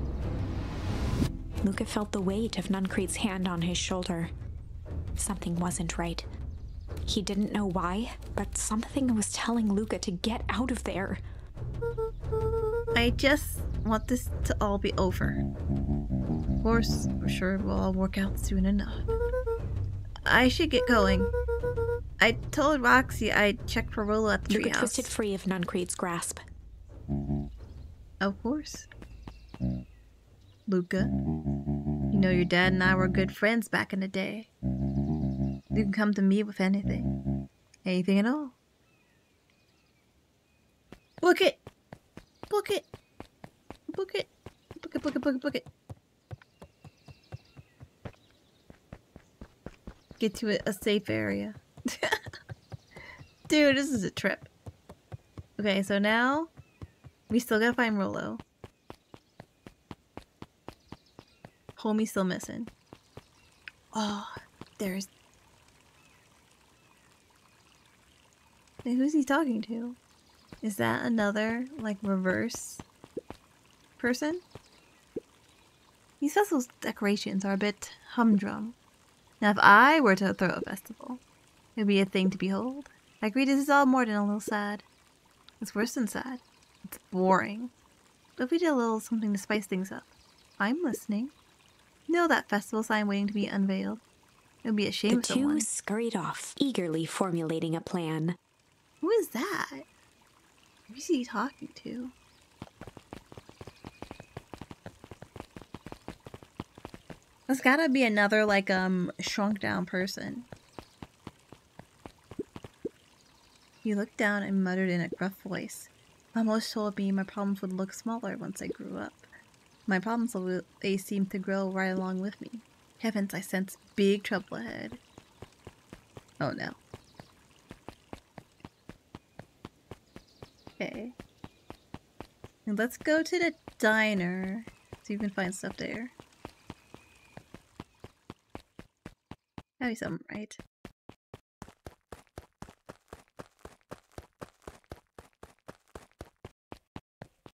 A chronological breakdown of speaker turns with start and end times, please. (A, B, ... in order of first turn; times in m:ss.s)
0:01.6-0:04.3 A
0:05.2-0:06.2 A
0:07.0-0:11.2 A
0:12.9-0:15.4 B
0:16.6-0:19.0 B
0:20.2-0:21.3 B
0:22.2-0:25.1 B
0:24.5-0:26.4 A
0:28.2-0:28.9 B
0:30.7-0:31.1 B
0:32.1-0:34.5 B
0:35.7-0:37.1 B
0:37.8-0:38.5 B
0:41.2-0:41.6 B
0:42.5-0:42.9 B
0:43.9-0:45.6 B
0:50.2-0:52.2 B
0:53.5-0:54.5 B
0:55.6-0:56.5 B
0:57.3-0:58.4 B
1:01.8-1:02.7 B
1:03.9-1:05.1 B
1:08.8-1:10.0 B
1:10.6-1:12.8 B
1:14.0-1:14.4 B
1:16.2-1:18.8 B
1:19.4-1:21.2 B
1:21.8-1:24.8 B
1:25.6-1:27.7 B
1:28.4-1:30.1 B
1:30.6-1:31.3 B
1:32.1-1:34.0 B
1:34.6-1:35.6 B
1:35.1-1:38.4 A
1:39.0-1:39.8 B
1:40.9-1:42.1 B
1:47.5-1:50.5 B
1:53.8-1:59.2 B
1:59.8-2:05.0 B
2:06.4-2:06.8 B
2:10.8-2:11.1 B
2:12.6-2:16.1 B
2:19.8-2:20.6 B